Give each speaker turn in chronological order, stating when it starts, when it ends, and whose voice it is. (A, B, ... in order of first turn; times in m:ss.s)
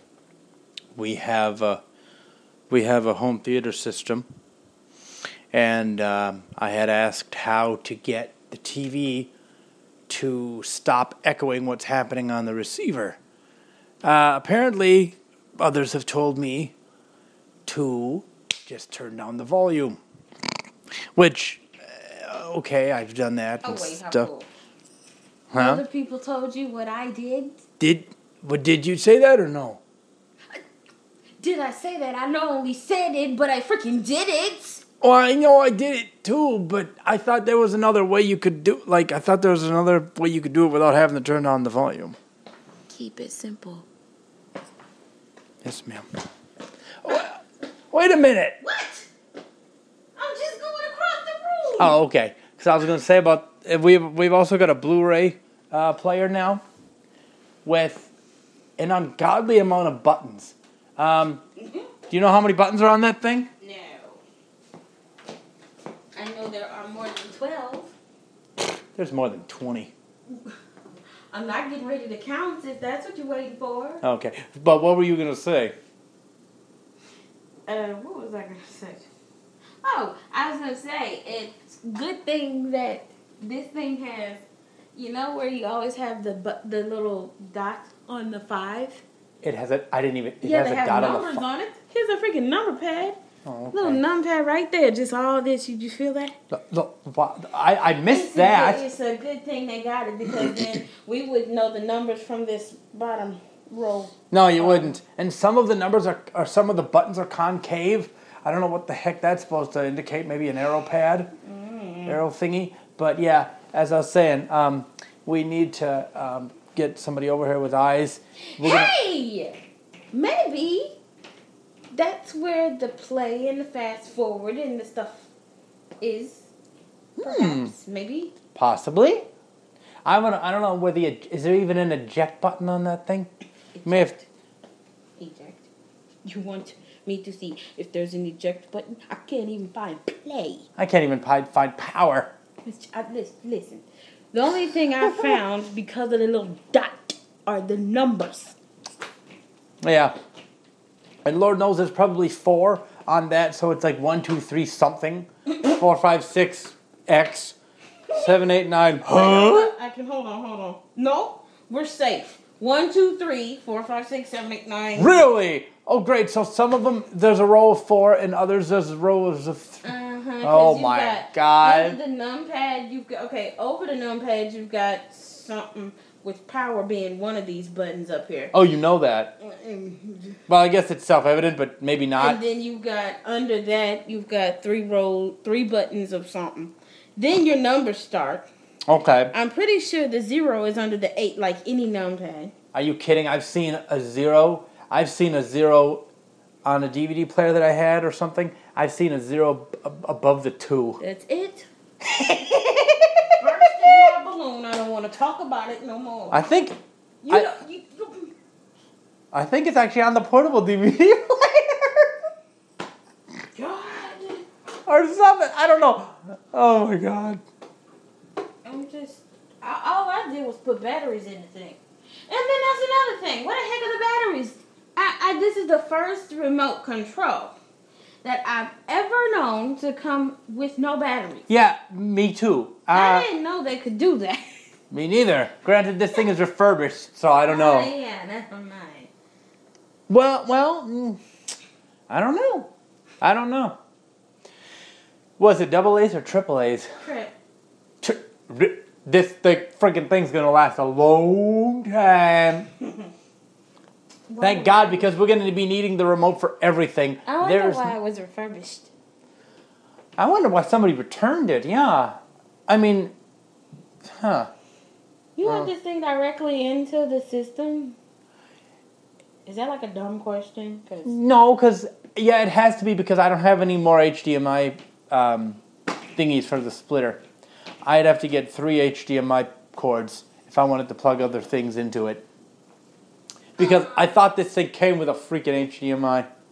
0:01.0-0:01.8 A
0:02.7-0:04.2 A
0:05.5-0:09.3 A
0:10.1-0:13.2 A
0:14.0-0:16.7 A
0:17.6-0:20.0 A
0:21.1-0:24.3 A
0:23.6-0:24.5 B
0:25.5-0:25.8 A
0:25.6-0:27.6 B
0:27.8-0:29.8 A
0:31.4-0:34.8 B
0:35.0-0:42.2 A
0:42.9-0:43.8 B
0:45.6-0:46.0 A
0:47.0-0:48.6 A
0:48.6-0:49.1 B
0:50.2-0:52.0 B
0:51.8-0:56.6 A
0:57.6-0:58.1 A
0:58.8-1:01.4 A
1:02.1-1:03.5 A
1:03.6-1:04.2 B
1:06.1-1:07.9 B
1:09.0-1:09.9 A
1:11.3-1:14.0 B
1:14.0-1:15.7 A
1:17.6-1:19.0 B
1:19.8-1:24.4 B
1:24.9-1:29.0 B
1:29.4-1:31.4 A
1:30.4-1:33.2 B
1:33.4-1:34.0 A
1:33.7-1:36.3 B
1:36.5-1:38.8 A
1:38.0-1:44.9 B
1:40.3-1:40.8 A
1:44.3-1:51.3 A
1:51.4-1:52.2 B
1:52.0-1:58.9 A
1:58.6-1:59.6 B
2:00.1-2:00.9 B
2:01.9-2:05.3 B
2:06.0-2:06.5 B
2:07.2-2:07.7 A
2:07.2-2:08.3 B
2:08.5-2:09.2 A
2:10.0-2:13.3 A
2:13.8-2:14.2 B
2:13.8-2:14.2 A
2:15.2-2:15.7 B
2:16.2-2:20.6 B
2:20.8-2:22.3 A
2:22.6-2:28.6 B
2:29.8-2:30.1 A
2:31.2-2:37.6 A
2:38.1-2:39.7 A
2:39.1-2:45.3 B
2:44.9-2:49.9 A
2:49.8-2:58.5 B
2:50.4-2:52.0 A
2:58.5-2:59.3 A
2:59.4-3:00.4 B
3:00.5-3:02.4 A
3:02.2-3:08.4 B
3:08.9-3:09.3 A
3:09.3-3:12.5 B
3:12.7-3:16.0 A
3:16.6-3:21.0 A
3:21.0-3:21.7 B
3:22.2-3:23.0 A
3:23.4-3:26.5 B
3:26.3-3:26.8 A
3:27.2-3:28.3 B
3:29.3-3:32.1 A
3:33.5-3:34.4 B
3:34.9-3:37.4 A
3:38.6-3:47.5 B
3:48.2-3:51.4 B
3:51.5-3:53.3 A
3:52.9-3:54.6 B
3:54.9-3:57.9 A
3:57.5-3:59.1 B
4:00.1-4:01.2 A
4:02.1-4:02.7 A
4:03.2-4:03.8 A
4:05.4-4:06.9 A
4:07.0-4:07.3 B
4:08.0-4:12.7 A
4:14.3-4:15.1 B
4:14.4-4:18.0 A
4:17.2-4:18.9 B
4:20.2-4:22.2 A
4:22.7-4:23.1 A
4:24.0-4:24.5 A
4:25.4-4:28.0 B
4:29.4-4:31.1 B
4:31.0-4:35.6 A
4:36.2-4:37.2 A
4:37.8-4:42.2 A
4:43.6-4:46.3 A
4:43.6-4:44.1 B